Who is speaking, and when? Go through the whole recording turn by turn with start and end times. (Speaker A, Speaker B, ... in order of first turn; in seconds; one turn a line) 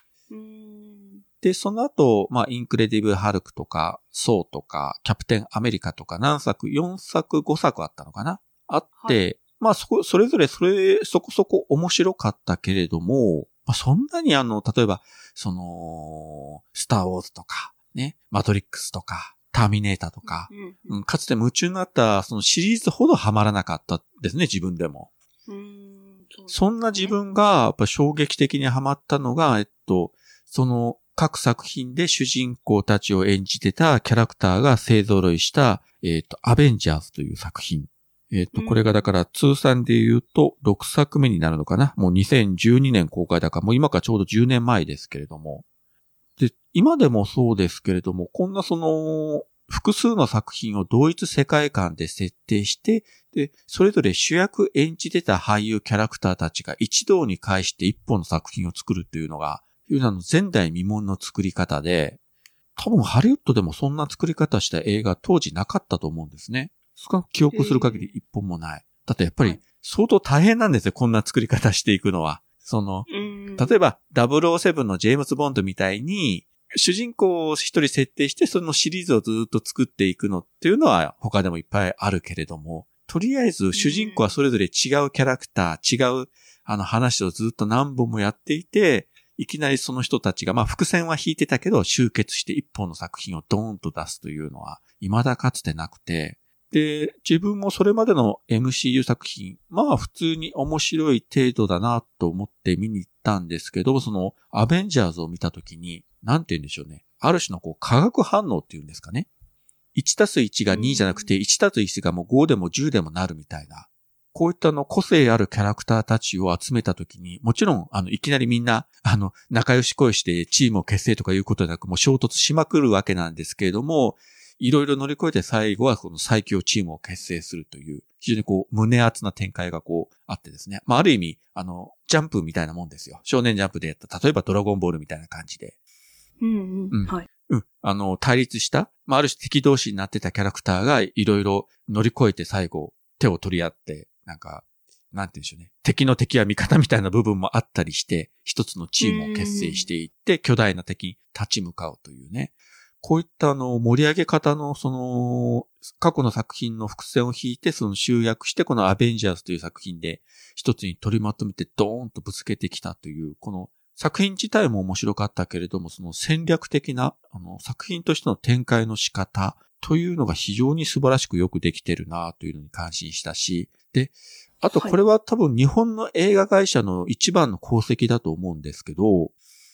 Speaker A: 0.3-1.2
Speaker B: 1.4-25.1
Speaker A: 20.2-21.0
Speaker A: 25.5-27.1
Speaker B: 26.5-45.6
Speaker A: 38.5-39.1
Speaker B: 46.4-62.2
Speaker B: 62.8-109.3
Speaker A: 67.5-68.1
Speaker A: 73.1-73.8
Speaker A: 83.7-84.3
Speaker B: 109.9-135.7
Speaker A: 110.7-111.3
Speaker A: 136.4-137.2
Speaker B: 136.9-179.3
Speaker A: 149.0-149.8
Speaker A: 174.7-175.0